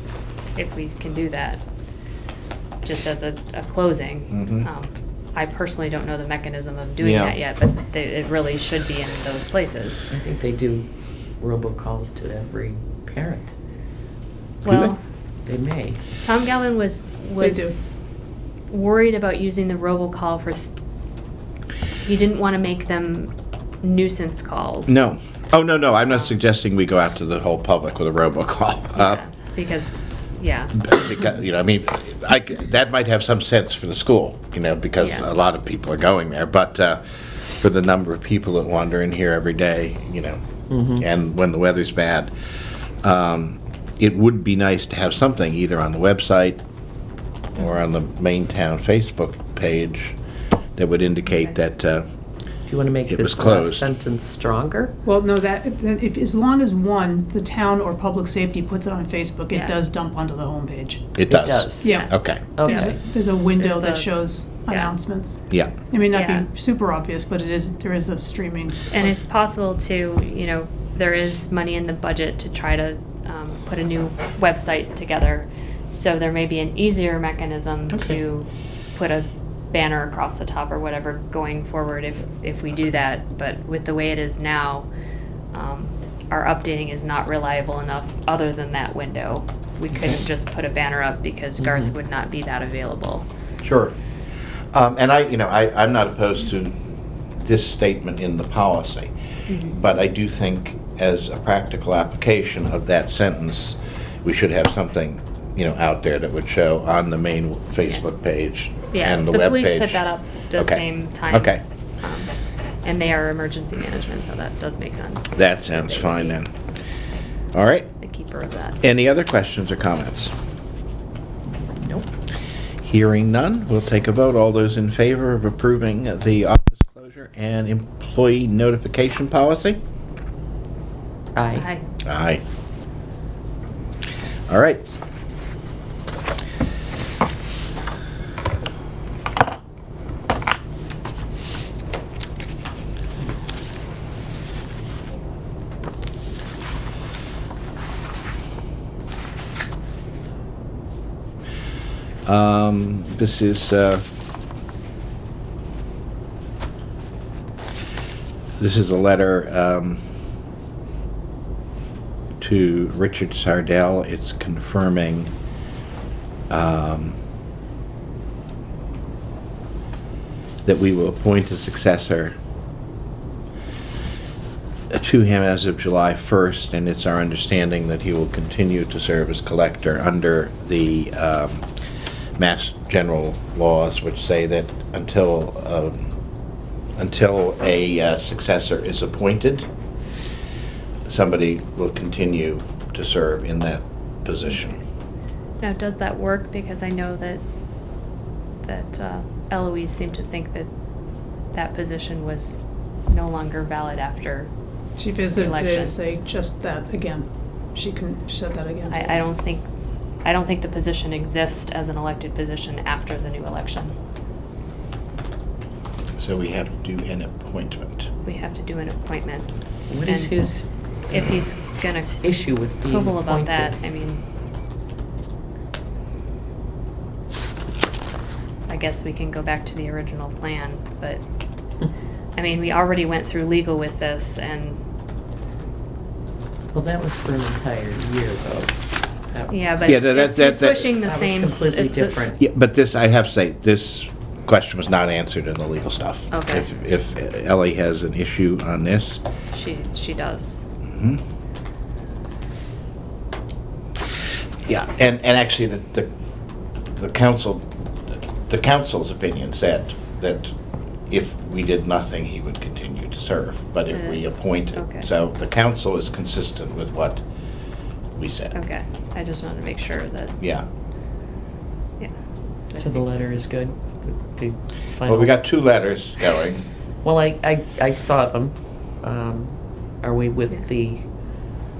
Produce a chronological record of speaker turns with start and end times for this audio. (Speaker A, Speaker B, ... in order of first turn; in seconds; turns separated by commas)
Speaker A: 0.6-1.6, Speaker A: 2.8-10.1, Speaker B: 4.3-4.7, Speaker B: 7.0-7.4, Speaker C: 10.1-13.5, Speaker A: 14.6-15.0, Speaker C: 15.4-16.0, Speaker A: 16.2-17.8, Speaker D: 17.4-17.8, Speaker A: 18.7-20.7, Speaker A: 22.0-25.1, Speaker B: 24.9-29.2, Speaker A: 26.1-26.4, Speaker A: 28.9-30.8, Speaker B: 30.8-42.3, Speaker A: 35.0-35.3, Speaker C: 40.7-41.0, Speaker B: 43.0-46.6, Speaker B: 47.5-50.2, Speaker B: 50.8-52.1, Speaker C: 52.7-55.0, Speaker B: 53.1-53.9, Speaker D: 55.0-61.1, Speaker A: 59.5-59.8, Speaker B: 61.2-62.5, Speaker C: 61.3-62.0, Speaker A: 61.8-63.0, Speaker D: 61.8-69.2, Speaker C: 62.5-63.0, Speaker A: 63.6-64.1, Speaker A: 64.7-64.9, Speaker A: 66.1-66.5, Speaker A: 68.9-84.9, Speaker A: 85.5-93.3, Speaker C: 91.6-91.9, Speaker B: 93.6-94.0, Speaker B: 94.7-96.8, Speaker B: 97.4-99.1, Speaker A: 99.5-99.8, Speaker B: 99.7-110.0, Speaker A: 108.9-112.3, Speaker B: 110.5-111.6, Speaker A: 112.8-116.4, Speaker B: 115.3-116.5, Speaker B: 117.5-117.9, Speaker A: 118.0-118.8, Speaker B: 118.8-120.3, Speaker C: 121.8-122.1, Speaker B: 122.8-129.8, Speaker C: 131.3-131.7, Speaker A: 131.6-131.8, Speaker B: 132.1-132.4, Speaker B: 134.5-134.9, Speaker B: 152.3-154.1, Speaker B: 158.6-160.0, Speaker B: 162.4-165.3, Speaker B: 166.5-167.2, Speaker B: 170.7-172.4, Speaker B: 174.9-181.7, Speaker B: 182.4-186.2, Speaker B: 187.0-189.7, Speaker B: 191.1-194.8, Speaker A: 195.6-197.4, Speaker A: 198.6-200.7, Speaker A: 201.5-204.5, Speaker D: 205.0-209.2, Speaker A: 205.3-206.0, Speaker A: 208.9-209.7, Speaker A: 210.2-213.9, Speaker B: 216.2-218.1, Speaker A: 218.2-219.5, Speaker C: 219.9-220.7, Speaker A: 220.0-220.3, Speaker A: 221.1-222.2, Speaker C: 222.2-223.8, Speaker A: 222.8-224.2, Speaker A: 228.7-231.2, Speaker A: 232.4-234.8, Speaker C: 236.7-239.6, Speaker A: 239.5-242.2, Speaker B: 239.8-240.9, Speaker C: 241.0-242.4, Speaker B: 242.4-249.2, Speaker A: 246.3-246.7, Speaker A: 249.5-250.7, Speaker B: 250.9-251.2, Speaker B: 254.7-256.1, Speaker B: 256.9-257.7, Speaker B: 258.5-260.6, Speaker B: 261.1-267.2, Speaker A: 263.9-264.2, Speaker A: 264.7-265.1, Speaker B: 268.1-268.6, Speaker A: 268.5-270.4, Speaker B: 270.4-270.6, Speaker A: 272.0-273.6, Speaker C: 272.8-275.3, Speaker B: 275.1-276.6, Speaker C: 277.0-281.1